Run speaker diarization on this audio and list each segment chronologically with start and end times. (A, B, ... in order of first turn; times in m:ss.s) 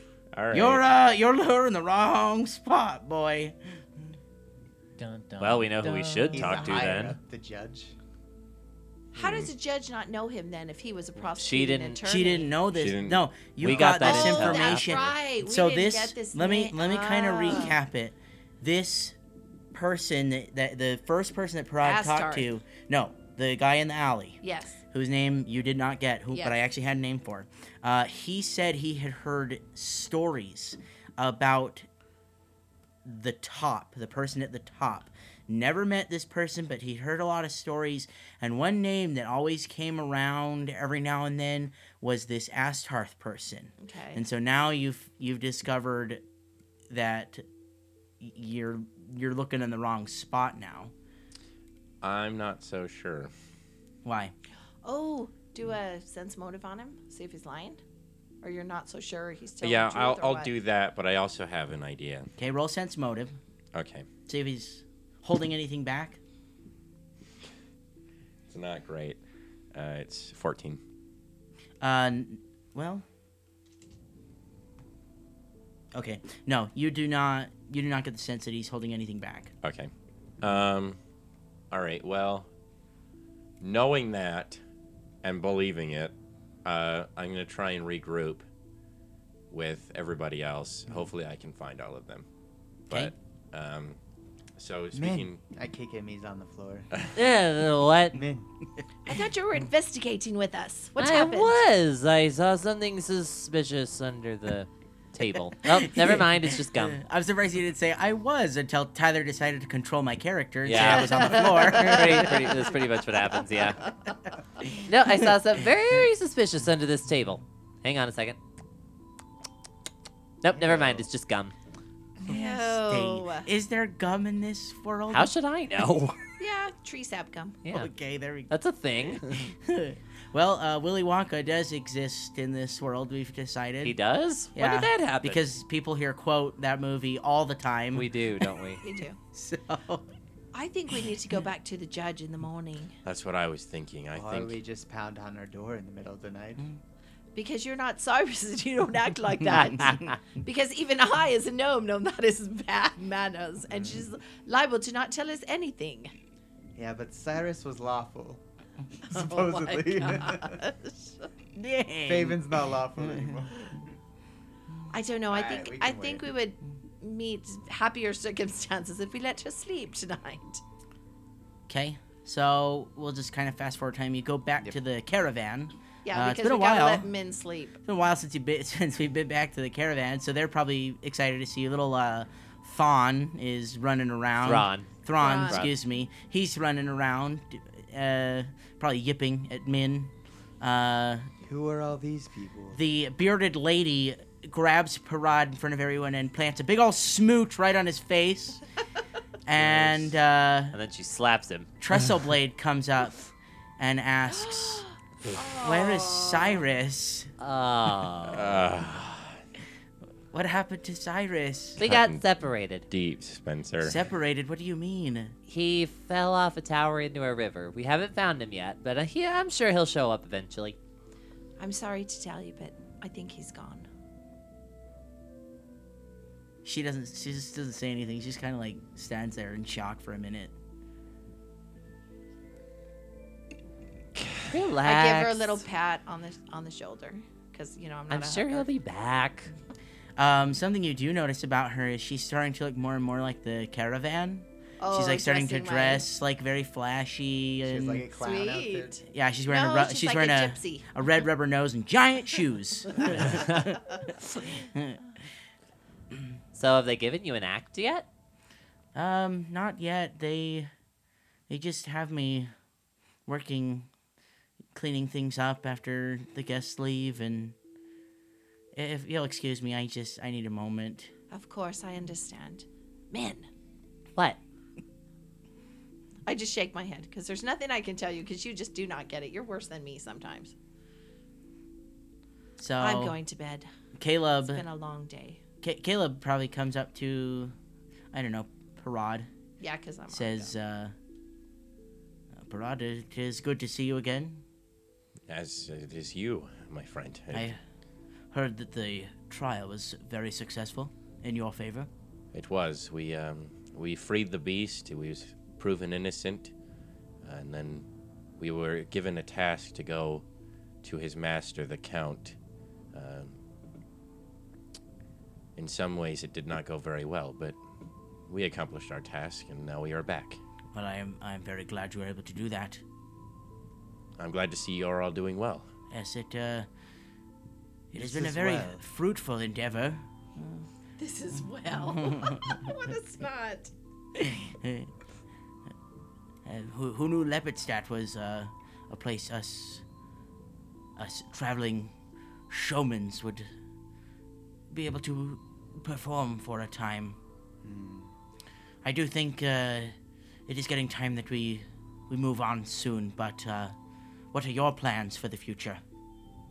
0:00.3-0:00.8 A
0:00.5-0:03.6 B
0:05.0-0:06.8 B
0:05.4-0:07.2 C
0:06.3-0:07.9 D
0:09.1-0:12.5 E
0:09.2-0:09.5 A
0:11.2-0:12.0 C
0:12.0-0:19.2 B
0:12.7-0:13.9 A
0:13.6-0:15.0 C
0:14.0-0:17.8 E
0:14.4-0:15.0 A
0:19.7-0:31.8 B
0:21.8-0:22.5 E
0:24.4-0:24.8 E
0:26.3-0:26.6 E
0:33.0-0:46.2 B
0:43.8-0:44.2 E
0:46.9-0:47.4 B
0:48.2-0:50.9 B
0:52.0-0:53.3 A
0:54.0-0:54.3 B
0:54.8-0:57.8 E
0:58.4-1:00.5 E
0:59.6-1:02.3 A
1:02.4-1:03.4 B
1:03.7-1:04.1 A
1:04.3-1:06.2 B
1:08.5-1:09.2 A
1:09.7-1:10.8 A
1:11.8-1:13.0 B
1:15.9-1:19.5 B
1:19.6-1:19.9 A
1:20.4-1:21.0 A
1:21.7-1:22.5 A
1:23.6-1:24.6 A
1:25.2-1:26.1 A
1:26.6-1:28.4 A
1:29.5-1:32.2 A
1:32.9-1:34.0 A
1:34.6-1:35.4 A
1:34.9-1:36.9 D
1:37.1-1:38.2 C
1:38.1-1:38.5 D
1:39.0-1:41.6 E
1:41.0-1:47.0 C
1:45.7-1:52.5 B
1:50.6-1:53.9 C
1:50.8-1:52.4 E
1:54.7-1:58.4 C
2:00.4-2:01.5 C
2:00.6-2:01.0 D
2:02.2-2:05.3 B
2:02.2-2:03.5 E
2:05.1-2:06.2 C
2:06.4-2:07.6 E
2:07.6-2:07.9 C
2:07.7-2:08.5 B
2:08.5-2:09.5 C
2:09.2-2:14.0 B
2:13.8-2:15.4 C
2:14.5-2:18.1 B
2:17.9-2:18.8 C
2:18.8-2:19.2 E
2:19.3-2:20.0 B
2:20.5-2:22.9 E
2:23.0-2:24.6 A
2:24.1-2:26.7 D
2:27.3-2:36.1 E
2:29.7-2:30.0 C
2:33.7-2:34.1 D
2:36.8-2:38.4 D
2:39.1-2:40.6 D
2:39.1-2:41.3 E
2:41.6-2:42.4 B
2:42.0-2:43.8 D
2:44.9-2:50.6 E
2:45.3-2:46.2 D
2:51.7-2:57.1 B
2:56.0-2:57.8 E
2:57.8-3:11.3 B
3:04.4-3:05.7 C
3:05.2-3:05.7 E
3:11.4-3:12.8 D
3:12.7-3:18.6 B
3:19.4-3:20.8 B
3:19.6-3:20.0 A
3:20.7-3:21.7 C
3:21.8-3:23.3 B
3:23.8-3:24.8 B
3:24.3-3:26.6 E
3:25.6-3:27.3 B
3:27.4-3:28.6 C
3:28.3-3:29.4 A
3:30.3-3:31.8 B
3:31.8-3:32.8 C
3:31.8-3:32.2 A
3:32.9-3:34.0 A
3:33.8-3:35.3 B
3:35.5-3:40.8 C
3:41.6-3:43.9 E
3:46.6-3:50.5 B
3:54.4-3:55.6 C
3:54.8-3:58.7 E
3:58.1-3:59.5 C
4:00.2-4:08.1 B
4:04.8-4:06.0 E
4:07.6-4:09.0 D
4:08.1-4:10.8 E
4:09.0-4:13.8 B
4:13.2-4:13.6 C
4:14.6-4:15.0 B
4:16.5-4:18.1 C
4:18.9-4:20.7 B
4:21.5-4:22.5 B
4:23.2-4:23.9 B
4:24.7-4:27.5 B
4:28.7-4:31.1 B
4:31.3-4:33.5 E
4:36.2-4:40.5 E
4:42.6-4:43.2 B
4:42.8-4:43.7 E
4:44.0-4:44.6 B
4:44.4-4:45.4 E
4:45.6-4:47.5 B
4:48.1-4:49.3 B
4:49.6-4:50.5 E
4:50.1-4:50.9 B
4:52.4-4:54.4 B
4:55.3-4:57.5 A
4:57.3-4:57.6 B
4:58.3-5:01.9 B
5:02.3-5:06.5 A
5:07.2-5:07.8 A
5:08.4-5:10.2 A
5:10.8-5:12.4 A
5:12.9-5:13.4 A
5:15.6-5:17.6 A
5:18.3-5:20.4 A
5:20.7-5:22.8 B
5:24.2-5:25.7 A
5:25.9-5:26.7 B
5:27.9-5:30.6 B
5:27.9-5:28.8 D
5:31.0-5:33.7 E
5:31.8-5:32.6 B
5:34.1-5:34.9 B
5:36.4-5:39.8 B
5:41.0-5:41.9 B
5:42.5-5:43.5 B
5:44.7-5:47.2 B
5:47.6-5:48.1 D
5:48.8-5:49.9 B
5:50.5-5:53.7 B
5:54.3-5:55.8 B